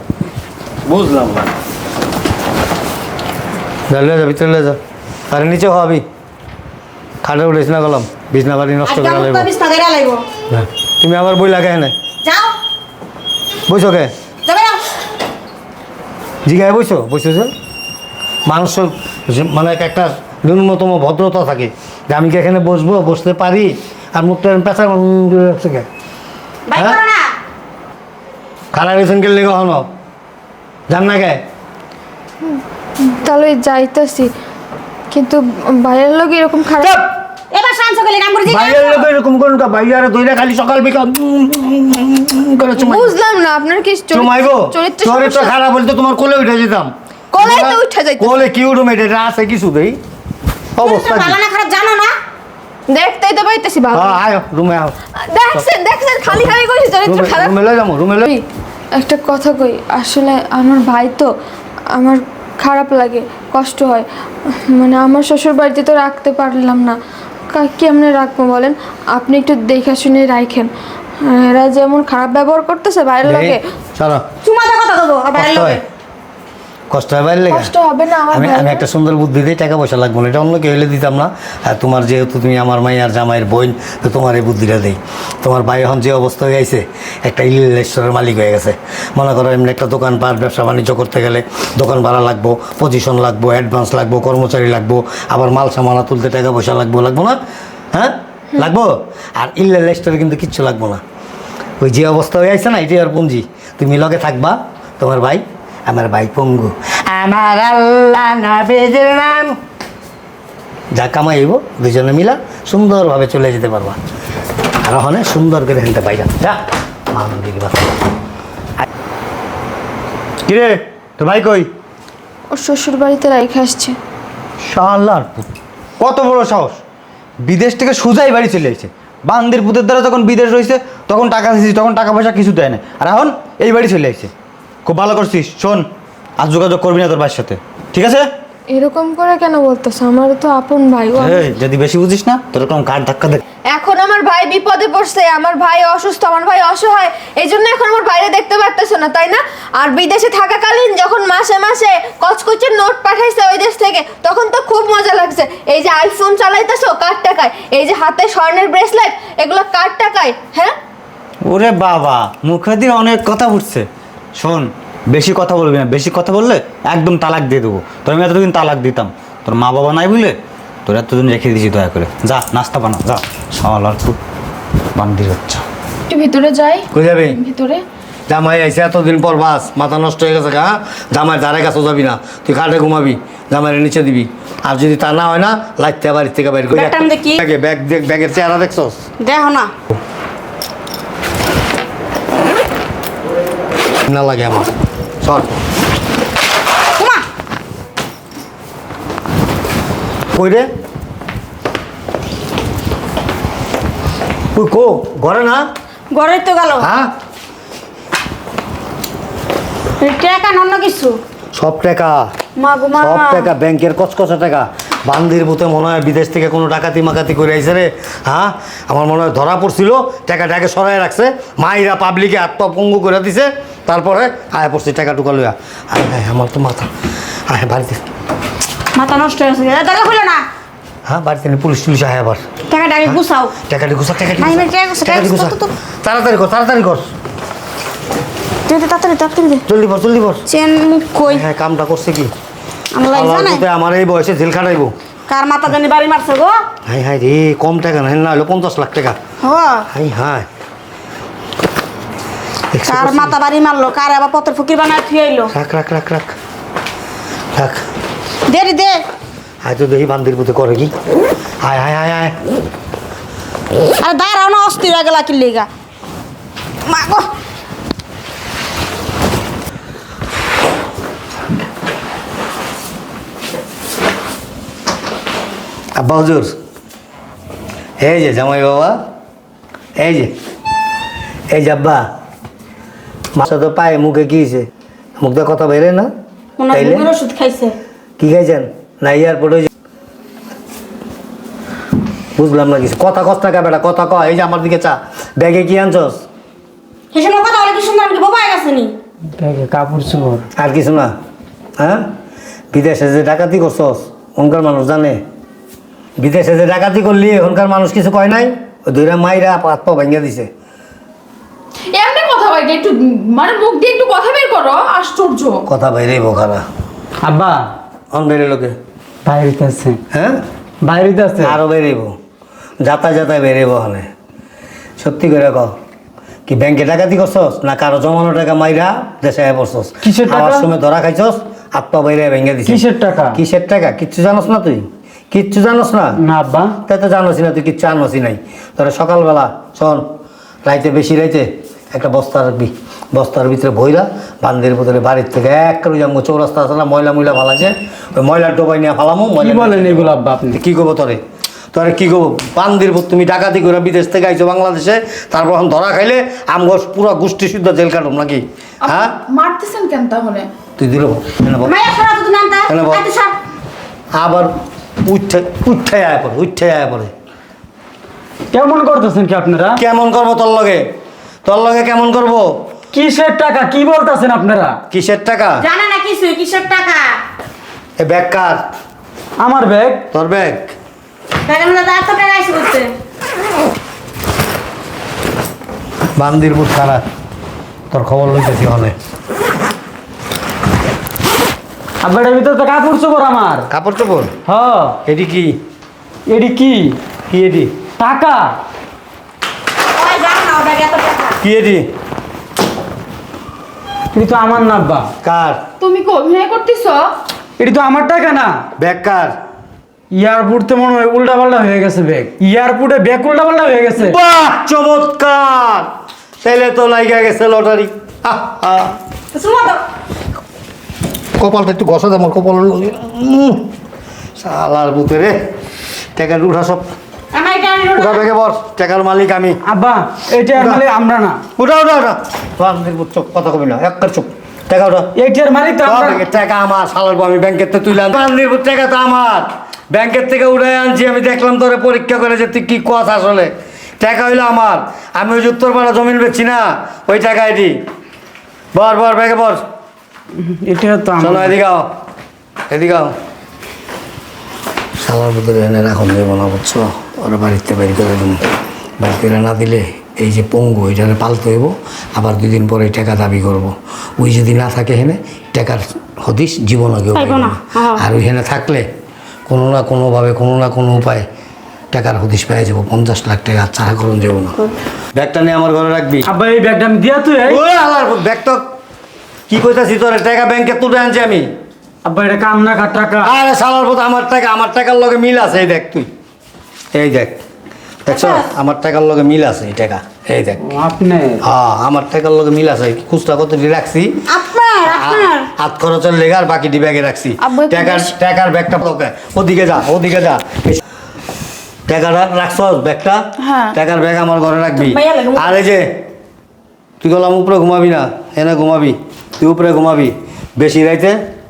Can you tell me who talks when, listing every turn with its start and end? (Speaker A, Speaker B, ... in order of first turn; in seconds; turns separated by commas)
Speaker A: 0.9-1.5, Speaker A: 3.9-4.8, Speaker A: 5.3-6.0, Speaker A: 7.2-9.5, Speaker B: 8.9-10.2, Speaker A: 10.5-11.9, Speaker B: 12.2-12.5, Speaker A: 13.7-14.1, Speaker B: 14.4-14.8, Speaker A: 16.5-17.5, Speaker A: 18.5-25.9, Speaker B: 26.7-27.3, Speaker A: 28.7-29.9, Speaker A: 30.9-31.4, Speaker C: 32.5-34.3, Speaker C: 35.1-37.0, Speaker B: 37.5-39.1, Speaker A: 38.5-43.1, Speaker C: 42.8-45.5, Speaker A: 44.1-50.0, Speaker C: 47.3-48.4, Speaker A: 50.8-51.4, Speaker B: 50.8-52.1, Speaker C: 52.9-54.2, Speaker A: 53.9-54.9, Speaker C: 55.2-57.5, Speaker A: 56.3-56.5, Speaker A: 57.0-58.3, Speaker C: 59.0-61.3, Speaker C: 61.9-67.0, Speaker C: 67.5-73.6, Speaker A: 73.2-74.2, Speaker B: 74.4-75.8, Speaker A: 75.3-75.8, Speaker A: 76.9-77.7, Speaker C: 77.5-78.8, Speaker A: 78.3-97.4, Speaker A: 97.9-101.0, Speaker A: 101.8-109.6, Speaker A: 110.9-114.0, Speaker A: 114.8-116.6, Speaker A: 117.1-118.0, Speaker D: 120.5-121.7, Speaker C: 122.5-124.0, Speaker A: 124.6-125.3, Speaker D: 126.0-126.8, Speaker D: 127.4-134.3, Speaker D: 134.8-135.9, Speaker D: 136.4-138.3, Speaker C: 138.7-141.5, Speaker D: 141.2-143.4, Speaker C: 143.7-160.8, Speaker D: 161.4-174.2, Speaker D: 174.9-175.7, Speaker E: 176.1-177.8, Speaker A: 176.9-177.4, Speaker A: 178.3-189.0, Speaker B: 186.7-187.4, Speaker B: 189.2-189.7, Speaker A: 194.1-194.7, Speaker A: 195.2-195.6, Speaker B: 197.0-197.2, Speaker A: 200.3-200.7, Speaker A: 204.6-205.7, Speaker B: 206.1-206.9, Speaker A: 206.8-207.1, Speaker B: 210.0-211.2, Speaker A: 211.6-212.3, Speaker B: 212.6-213.5, Speaker A: 213.0-226.9, Speaker A: 227.5-228.0, Speaker B: 228.9-230.4, Speaker A: 231.1-232.5, Speaker B: 232.7-233.5, Speaker A: 233.1-237.1, Speaker B: 234.4-235.7, Speaker B: 238.7-239.6, Speaker A: 239.7-240.4, Speaker B: 240.5-241.4, Speaker A: 241.2-242.3, Speaker B: 242.9-243.6, Speaker A: 243.1-244.9, Speaker B: 245.3-246.6, Speaker A: 246.9-249.2, Speaker B: 249.4-249.9, Speaker A: 249.9-250.5, Speaker A: 252.7-253.4, Speaker B: 252.8-255.5, Speaker A: 255.5-256.4, Speaker A: 257.5-257.8, Speaker B: 258.5-259.1, Speaker A: 259.6-260.9, Speaker A: 261.6-262.4, Speaker B: 264.0-265.7, Speaker B: 266.9-267.3, Speaker A: 275.9-276.6, Speaker A: 278.0-279.0, Speaker A: 280.0-280.3, Speaker A: 281.5-282.1, Speaker A: 283.4-284.7, Speaker A: 285.2-286.1, Speaker B: 286.6-287.8, Speaker A: 286.7-287.1, Speaker A: 288.2-289.7, Speaker A: 292.4-296.2, Speaker B: 297.1-298.9, Speaker F: 299.4-300.5, Speaker A: 300.6-301.1, Speaker A: 301.8-302.1, Speaker A: 302.7-305.2, Speaker A: 306.2-310.5, Speaker E: 311.9-315.6, Speaker A: 315.7-316.6, Speaker F: 317.2-317.7, Speaker A: 318.1-318.8, Speaker F: 319.2-320.0, Speaker A: 320.1-320.4, Speaker F: 320.8-321.6, Speaker A: 321.4-322.2, Speaker A: 322.8-324.1, Speaker A: 325.0-325.7, Speaker A: 326.5-332.8, Speaker F: 330.0-330.7, Speaker F: 332.7-333.4, Speaker A: 333.3-336.2, Speaker F: 336.2-336.8, Speaker A: 336.9-340.1, Speaker A: 340.6-351.2, Speaker F: 349.4-350.6, Speaker A: 351.7-359.1, Speaker E: 358.9-360.5, Speaker A: 360.8-361.8, Speaker B: 361.6-363.4, Speaker A: 362.7-363.0, Speaker A: 364.1-364.5, Speaker A: 365.0-367.1, Speaker F: 368.5-369.8, Speaker A: 369.8-370.8, Speaker A: 371.4-372.5, Speaker F: 372.9-374.8, Speaker A: 374.9-375.6, Speaker B: 375.6-377.1, Speaker A: 378.0-378.6, Speaker F: 379.4-380.0, Speaker A: 380.1-380.7, Speaker B: 381.4-382.9, Speaker A: 386.2-387.0, Speaker A: 387.9-388.9, Speaker F: 392.0-393.7, Speaker A: 393.7-394.3, Speaker F: 394.5-395.0, Speaker A: 395.1-395.6, Speaker F: 396.3-397.0, Speaker A: 397.3-397.7, Speaker F: 398.0-398.5, Speaker B: 399.9-401.4, Speaker A: 401.4-401.9, Speaker F: 404.1-405.1, Speaker A: 405.2-405.6, Speaker E: 405.8-407.1, Speaker F: 407.6-408.6, Speaker A: 408.8-409.4, Speaker F: 410.1-414.2, Speaker A: 414.0-415.9, Speaker A: 416.4-419.0, Speaker B: 419.3-419.8, Speaker A: 421.4-423.7, Speaker A: 424.4-425.4, Speaker A: 426.1-426.9, Speaker B: 427.3-428.2, Speaker A: 428.0-429.6, Speaker F: 429.6-431.4, Speaker A: 430.6-430.8, Speaker A: 431.6-435.1, Speaker F: 435.2-436.2, Speaker A: 435.9-447.8, Speaker A: 448.7-449.6, Speaker F: 450.4-451.5, Speaker A: 451.2-451.9, Speaker A: 452.7-453.1, Speaker A: 455.0-458.4, Speaker A: 459.0-468.9, Speaker B: 467.1-468.1, Speaker A: 469.5-471.3, Speaker A: 471.9-474.6, Speaker A: 475.1-476.3, Speaker F: 476.2-477.6, Speaker A: 477.5-478.6, Speaker A: 479.5-481.5, Speaker F: 482.1-483.3, Speaker A: 483.2-486.1, Speaker A: 486.9-487.4, Speaker A: 488.1-490.8, Speaker B: 488.1-488.5, Speaker F: 490.6-491.4, Speaker A: 491.4-494.2, Speaker B: 494.3-495.5, Speaker A: 494.9-500.8, Speaker E: 497.4-498.1, Speaker A: 501.9-506.0, Speaker E: 503.4-503.8, Speaker B: 504.7-505.6, Speaker A: 507.0-511.2